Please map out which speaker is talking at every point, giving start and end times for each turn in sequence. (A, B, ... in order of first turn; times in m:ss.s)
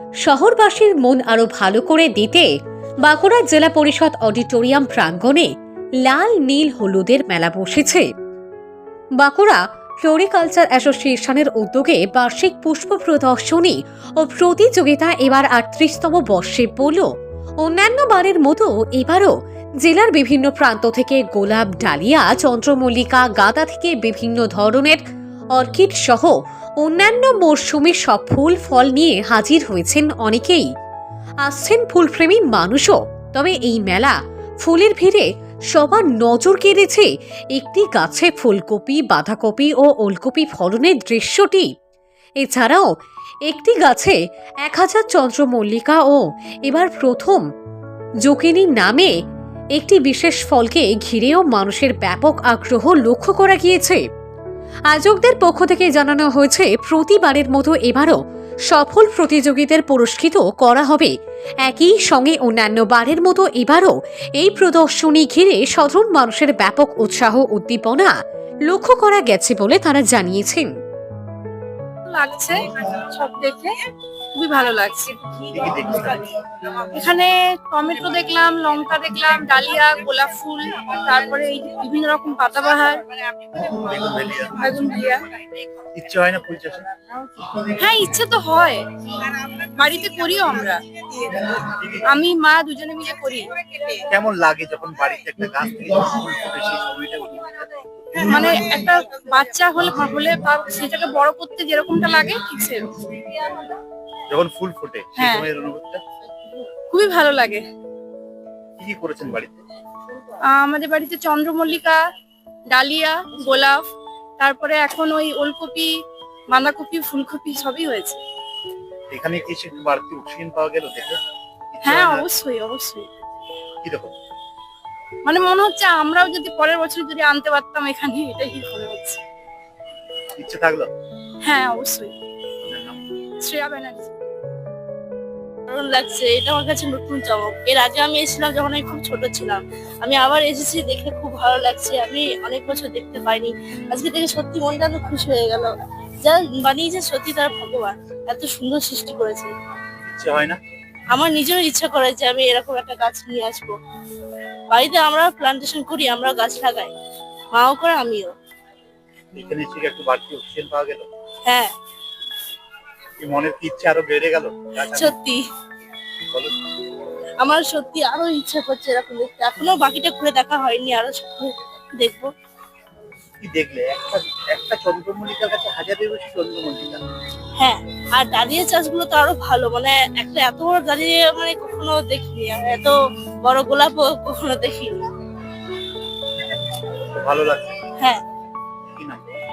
0:00.2-0:02.5 A
0:03.0-0:05.5 A
0:06.0-0:08.0 A
0:09.2-0:17.1 A
0:17.6-0:19.3 A
0:19.8-0:25.0 A
0:25.6-0:30.7 A
0:31.4-0:41.7 A
0:42.4-0:42.9 A
0:43.5-0:47.4 A
0:48.2-0:49.1 A
0:49.8-0:54.0 A
0:54.9-0:58.2 A
0:58.7-1:01.1 A
1:01.6-1:08.1 A
1:08.7-1:10.7 A
1:12.1-1:13.8 B
1:14.3-1:15.2 B
1:15.5-1:16.3 C
1:16.9-1:23.0 B
1:23.6-1:24.6 C
1:24.6-1:25.3 B
1:25.9-1:26.9 C
1:27.7-1:28.8 B
1:29.8-1:30.8 B
1:31.6-1:32.0 C
1:32.1-1:33.5 B
1:34.1-1:37.7 C
1:38.2-1:43.0 B
1:44.3-1:46.0 C
1:45.2-1:45.4 B
1:46.9-1:47.6 B
1:48.8-1:49.6 C
1:50.4-1:52.0 B
1:52.7-1:53.8 B
1:54.4-1:55.9 B
1:56.5-1:58.2 B
1:59.1-2:01.2 C
2:01.7-2:02.2 C
2:01.8-2:03.1 B
2:03.8-2:04.1 C
2:05.2-2:09.2 B
2:10.4-2:10.9 C
2:11.4-2:12.1 B
2:12.6-2:13.0 C
2:13.4-2:14.1 B
2:15.7-2:29.5 D
2:30.0-2:30.6 C
2:31.1-2:33.8 D
2:34.7-2:36.9 D
2:37.5-2:38.4 D
2:39.3-2:41.1 C
2:41.5-2:41.7 D
2:43.2-2:45.1 C
2:44.8-2:45.4 D
2:46.3-2:46.6 C
2:47.4-2:52.3 D
2:53.4-2:57.0 C
2:57.6-3:05.0 D
3:07.0-3:07.8 C
3:08.9-3:09.3 C